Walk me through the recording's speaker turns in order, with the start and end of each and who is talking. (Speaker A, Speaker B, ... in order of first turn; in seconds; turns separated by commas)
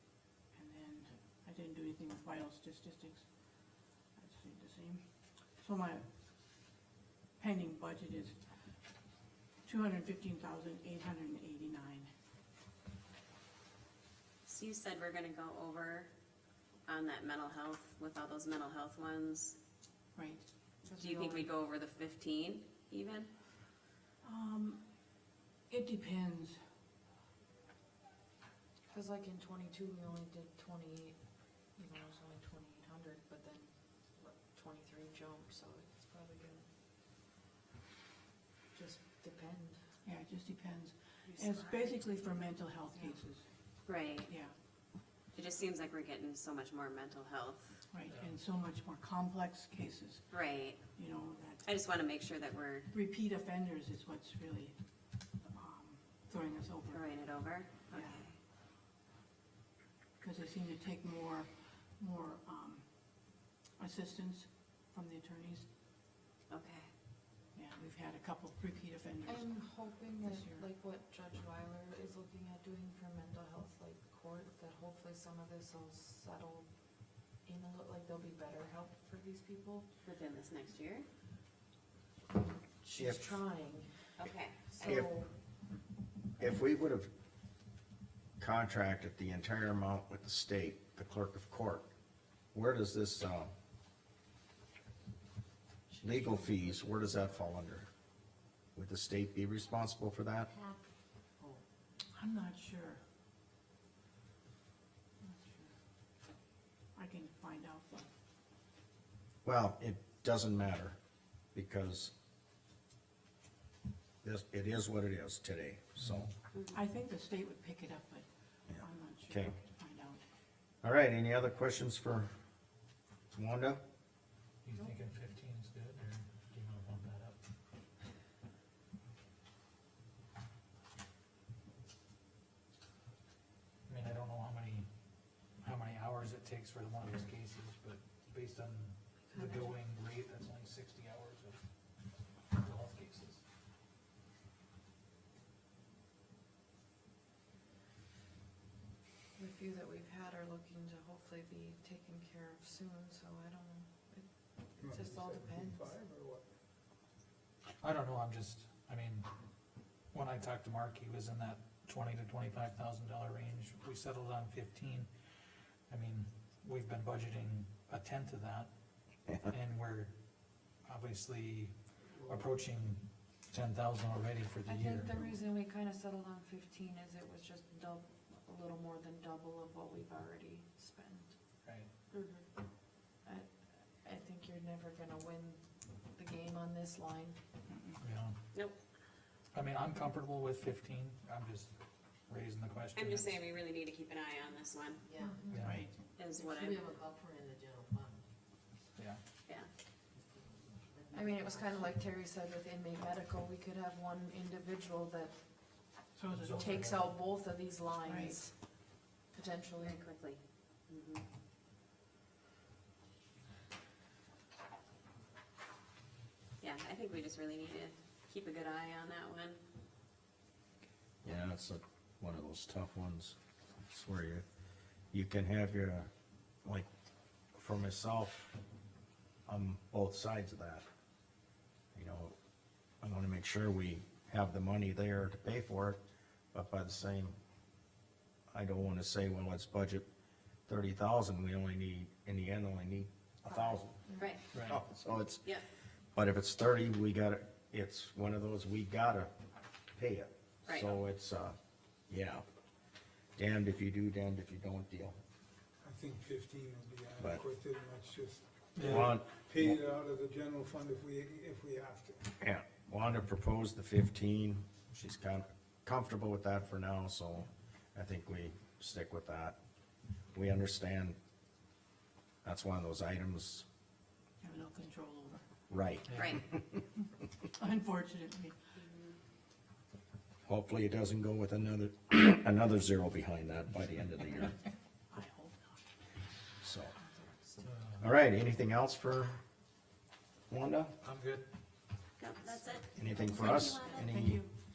Speaker A: 0.5-6.1, Speaker A: 7.4-8.5, Speaker A: 9.6-12.1, Speaker B: 14.4-16.1, Speaker B: 16.9-19.6, Speaker A: 20.1-21.5, Speaker B: 20.9-23.3, Speaker A: 24.2-24.9, Speaker A: 25.7-26.6, Speaker C: 28.9-31.2, Speaker C: 31.8-36.7, Speaker C: 38.7-39.8, Speaker A: 40.0-44.5, Speaker C: 41.2-43.2, Speaker B: 43.8-44.4, Speaker B: 45.3-47.8, Speaker A: 47.9-51.8, Speaker B: 50.3-51.0, Speaker B: 51.6-52.9, Speaker A: 52.9-57.1, Speaker B: 56.9-58.3, Speaker A: 57.9-58.2, Speaker A: 60.2-65.7, Speaker B: 66.5-66.9, Speaker A: 67.5-70.6, Speaker C: 69.2-79.9, Speaker B: 80.0-81.0, Speaker C: 82.3-85.3, Speaker D: 83.0-83.4, Speaker B: 84.2-84.6, Speaker D: 84.8-85.1, Speaker D: 86.4-87.1, Speaker D: 88.4-91.9, Speaker D: 92.5-93.5, Speaker C: 95.9-97.2, Speaker D: 96.0-97.9, Speaker D: 98.7-100.5, Speaker A: 102.1-103.0, Speaker A: 105.2-105.6, Speaker A: 106.9-108.1, Speaker D: 109.4-111.0, Speaker D: 111.5-112.1, Speaker D: 114.2-116.3, Speaker E: 116.0-116.3, Speaker B: 116.5-116.8, Speaker A: 116.7-120.2, Speaker D: 118.7-119.5, Speaker D: 120.8-122.3, Speaker D: 123.3-123.8, Speaker E: 124.6-127.4, Speaker E: 133.9-134.9, Speaker E: 135.6-141.6, Speaker C: 139.3-139.7, Speaker E: 142.5-143.4, Speaker C: 149.4-155.9, Speaker F: 154.8-156.4, Speaker E: 157.8-159.3, Speaker E: 160.1-165.1, Speaker E: 165.9-168.7, Speaker E: 169.4-170.1, Speaker E: 170.8-175.3, Speaker C: 174.7-181.3, Speaker E: 181.6-181.9, Speaker B: 182.1-182.5, Speaker C: 183.2-187.4, Speaker A: 187.7-188.0, Speaker E: 188.0-188.4, Speaker E: 189.5-191.7, Speaker E: 192.3-193.4, Speaker B: 192.9-195.0, Speaker G: 195.1-195.5, Speaker C: 195.2-195.7, Speaker E: 195.5-195.8, Speaker A: 195.6-195.9, Speaker B: 196.2-196.9, Speaker G: 196.3-198.2, Speaker G: 200.9-202.0, Speaker C: 201.1-210.0, Speaker A: 206.1-206.9, Speaker E: 206.3-207.2, Speaker A: 208.1-208.4, Speaker B: 209.8-211.3, Speaker B: 216.6-219.6, Speaker D: 221.2-223.4, Speaker D: 223.9-224.4, Speaker D: 225.1-226.1, Speaker D: 227.5-228.6, Speaker D: 229.5-230.9, Speaker D: 231.9-232.3, Speaker D: 233.0-236.0, Speaker D: 236.5-237.4, Speaker D: 238.5-240.1, Speaker D: 240.7-244.0, Speaker C: 243.5-244.4, Speaker B: 244.2-244.4, Speaker E: 244.5-244.8, Speaker D: 244.7-245.5, Speaker D: 246.2-249.3, Speaker D: 249.9-251.6, Speaker B: 250.7-251.0, Speaker D: 252.1-252.4, Speaker D: 253.4-255.2, Speaker F: 255.8-262.3, Speaker E: 258.8-259.1, Speaker D: 258.8-259.8, Speaker D: 262.4-269.6, Speaker D: 270.3-271.2, Speaker D: 272.4-273.6, Speaker A: 274.4-275.4, Speaker D: 275.7-276.7, Speaker E: 276.1-276.4, Speaker B: 276.1-276.4, Speaker A: 277.5-278.6, Speaker B: 278.8-279.2, Speaker D: 280.4-284.6, Speaker A: 285.1-285.8, Speaker D: 286.6-286.9, Speaker E: 287.6-288.1, Speaker D: 288.0-289.4, Speaker D: 290.5-290.9, Speaker E: 291.0-291.4, Speaker B: 292.2-294.1, Speaker D: 292.9-294.4, Speaker A: 293.6-294.5